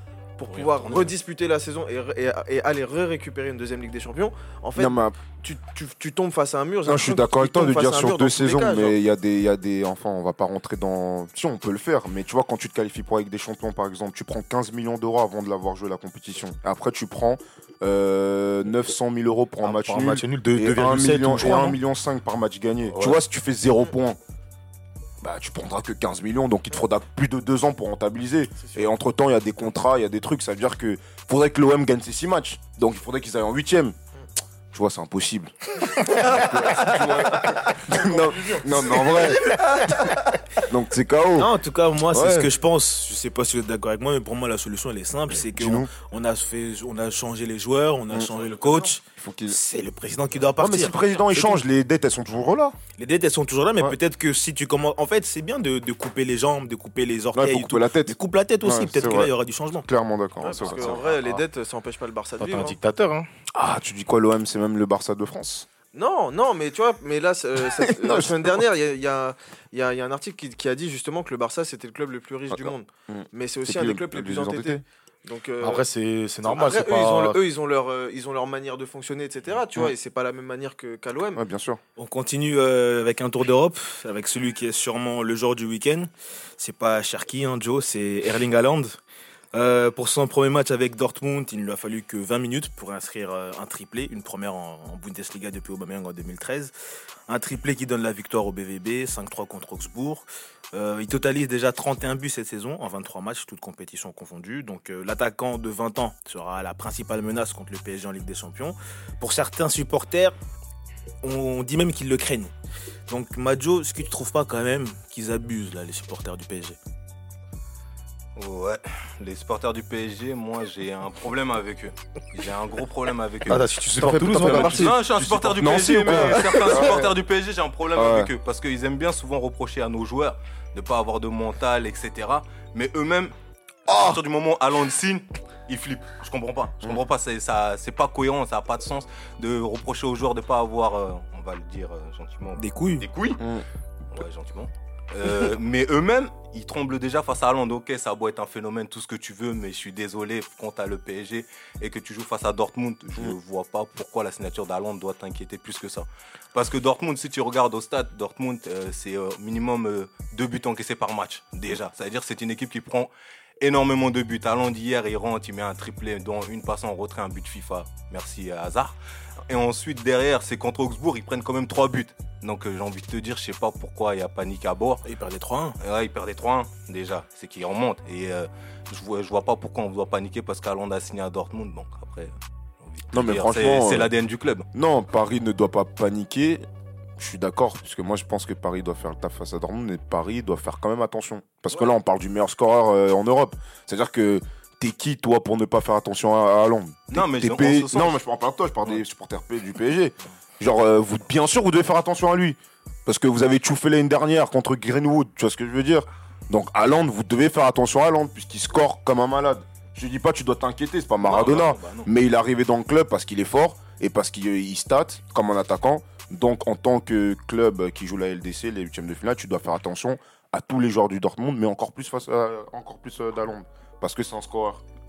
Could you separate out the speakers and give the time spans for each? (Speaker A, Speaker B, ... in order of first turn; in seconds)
Speaker A: 0.4-9.0, 28.6-28.8, 36.2-40.2, 60.4-62.8, 65.9-75.8, 76.5-81.4, 124.0-125.0, 126.1-127.0
Speaker B: 0.5-1.1, 118.3-123.7, 124.3-133.3, 133.9-143.4, 144.1-168.9, 169.5-175.0, 175.8-184.7, 197.1-198.2, 211.2-212.1
Speaker C: 4.8-5.1, 6.8-24.2, 25.2-34.0, 34.7-39.6, 40.7-41.5, 42.1-42.5, 45.5-45.9, 48.1-49.5, 50.6-52.7, 57.3-59.3, 59.8-61.4, 63.5-65.7, 67.8-68.6, 72.5-74.8, 81.3-81.8, 125.1-127.1, 128.0-128.3, 183.1-184.1, 184.7-186.6, 187.2-224.8
Speaker D: 19.6-21.8, 22.9-23.2, 62.4-63.3, 75.6-77.4, 123.5-124.9, 133.9-134.2
Speaker E: 41.4-51.6, 53.0-59.9, 82.0-89.0, 89.5-96.7, 97.3-110.3, 111.2-112.5, 113.1-116.8, 142.6-143.1, 175.0-175.8